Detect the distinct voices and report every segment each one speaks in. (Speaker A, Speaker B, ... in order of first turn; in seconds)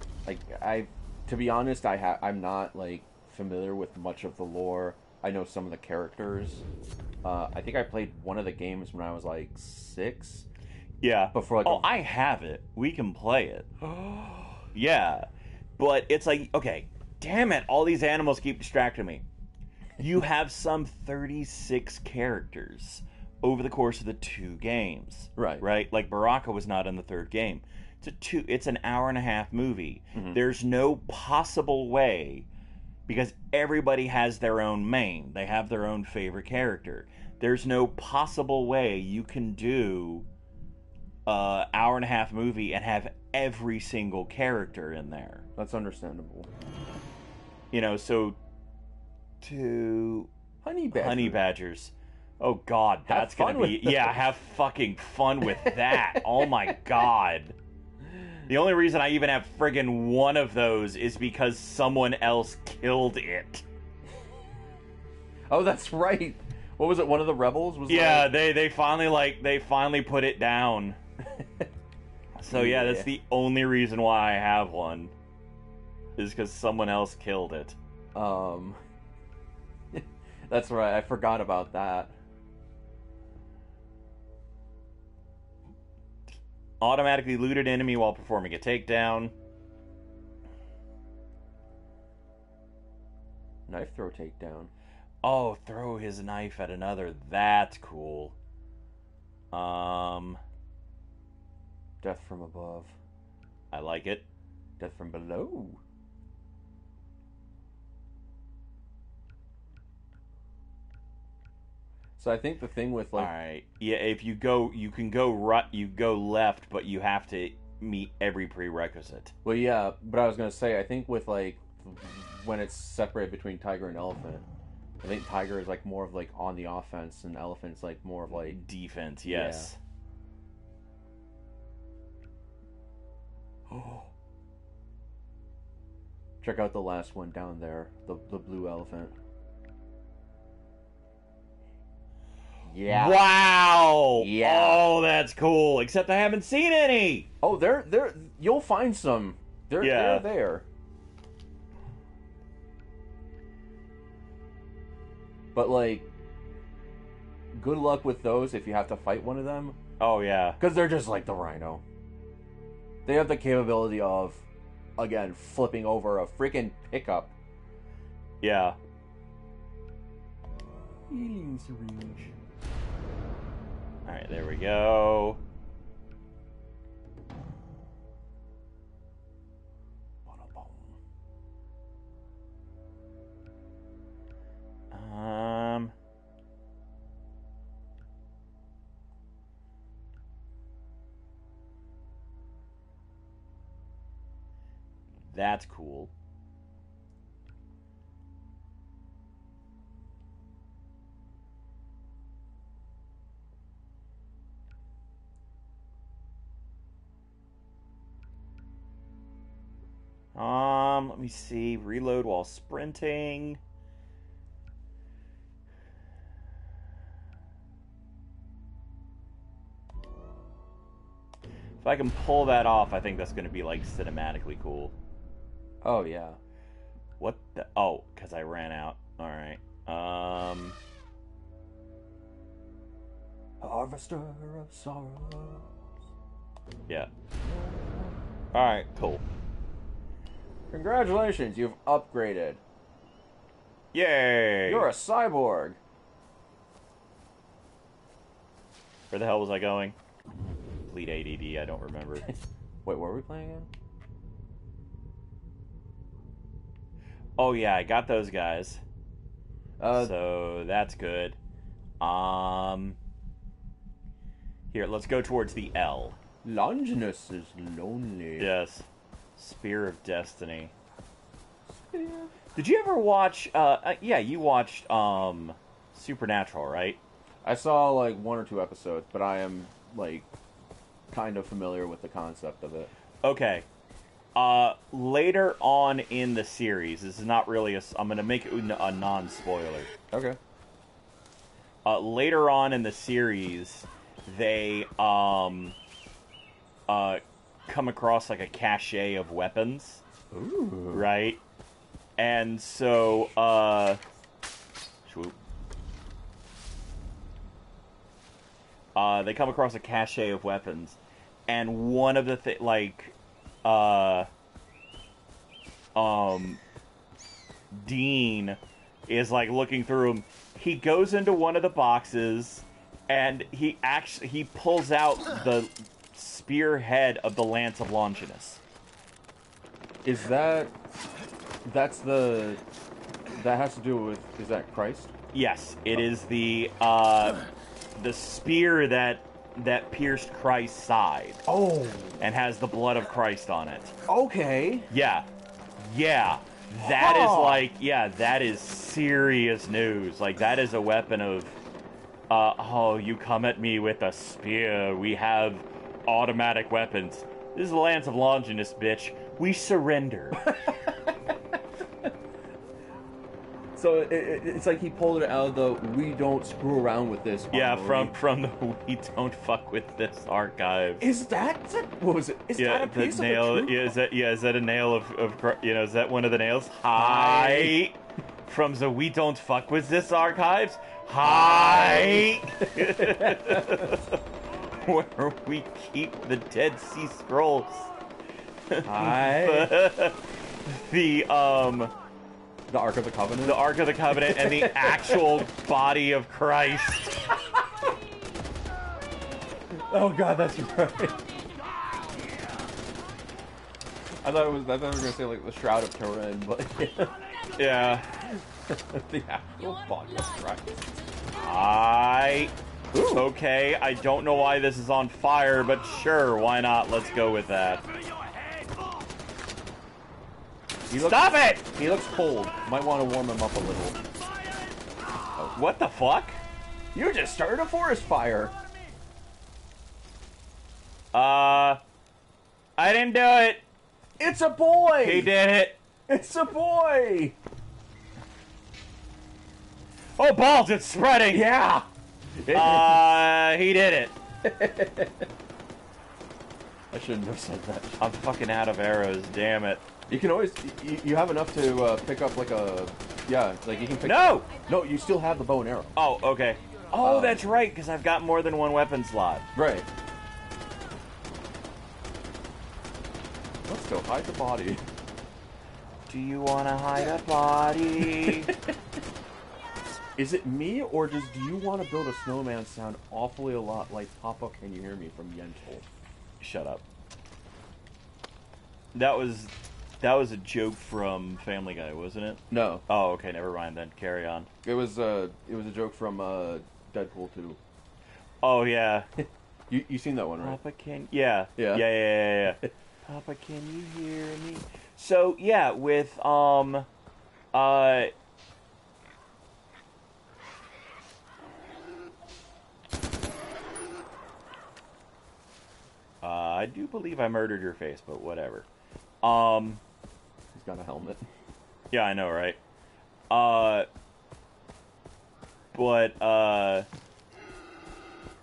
Speaker A: 0.2-6.6, 7.2-10.5, 11.3-11.9, 13.8-14.6, 25.4-25.6, 30.1-30.4, 45.5-46.5, 50.6-51.4, 53.0-54.2, 55.6-56.5, 65.5-68.3, 71.4-71.6, 72.5-73.1, 78.1-78.8, 79.9-82.2, 93.7-94.7, 102.0-103.0, 104.8-105.8, 112.2-113.3, 119.4-124.5, 125.0-128.6, 129.2-129.7, 133.7-134.1, 136.4-139.1, 142.6-143.3, 144.2-144.9, 147.4-150.6, 155.5-156.1, 157.5-159.8, 160.6-161.8, 163.0-164.4, 165.0-167.3, 171.1-172.3, 180.2-181.0, 225.8-226.4, 233.6-235.7, 237.4-238.2, 240.7-242.6, 244.7-245.8, 252.8-253.7, 259.8-260.1, 266.4-268.5, 271.7-272.3, 277.4-280.3, 281.1-282.9, 290.1-290.4, 300.3-301.1, 330.0-330.7, 331.6-332.6, 333.3-335.1, 341.4-342.2, 344.1-344.9, 346.8-347.7, 360.4-362.1, 363.8-368.1, 371.0-373.9, 376.9-377.8, 381.2-384.0, 388.8-389.7, 392.7-395.4, 399.7-401.4, 404.2-407.4, 408.1-410.6, 412.9-413.3, 420.9-424.0, 425.3-425.6, 426.9-428.5, 434.2-435.4, 436.1-437.4, 441.3-443.1, 444.4-445.3, 446.9-448.0, 450.1-455.9, 456.9-457.4, 459.5-459.9, 463.6-464.8, 468.0-468.7, 470.2-475.8, 482.5-482.8, 484.6-487.6, 489.2-490.6, 491.6-491.9, 492.4-492.7, 510.5-511.3
Speaker B: 11.0-13.7, 14.7-19.2, 20.0-32.5, 33.1-40.2, 41.2-45.4, 47.7-48.4, 49.4-50.3, 50.9-57.6, 58.5-63.6, 67.9-71.0, 72.3-75.1, 76.2-77.8, 86.8-89.3, 95.2-98.3, 99.5-100.4, 103.7-104.2, 113.2-119.3, 128.3-129.8, 142.9-147.3, 149.8-150.2, 160.0-160.6, 168.4-168.8, 174.1-175.4, 184.9-185.9, 195.3-196.1, 210.3-213.6, 221.8-224.9, 227.2-230.8, 238.5-239.2, 243.9-244.9, 249.1-250.0, 250.9-252.3, 257.4-258.8, 259.9-261.4, 262.0-263.0, 264.7-266.2, 268.4-268.9, 269.4-270.7, 272.5-277.0, 283.2-283.6, 284.3-289.9, 291.8-295.8, 296.9-300.0, 300.9-301.4, 302.2-304.0, 305.1-305.4, 308.9-314.3, 315.9-316.6, 317.7-328.6, 335.3-337.4, 337.9-341.4, 342.2-343.9, 344.9-345.3, 345.8-351.6, 352.3-360.5, 367.5-371.1, 372.6-384.2, 384.7-387.9, 388.7-391.9, 393.4-397.2, 407.6-408.1, 411.4-412.5, 413.1-417.8, 420.9-421.6, 425.5-426.4, 431.1-431.8, 432.8-433.6, 435.0-435.8, 440.2-441.4, 442.5-444.1, 448.0-449.8, 454.0-454.5, 455.9-459.5, 466.1-468.5, 476.4-476.8, 478.9-484.5, 488.4-489.1, 490.4-496.9, 497.5-498.1, 506.2-508.6, 509.2-509.8, 511.9-512.6, 513.3-513.9, 515.7-516.9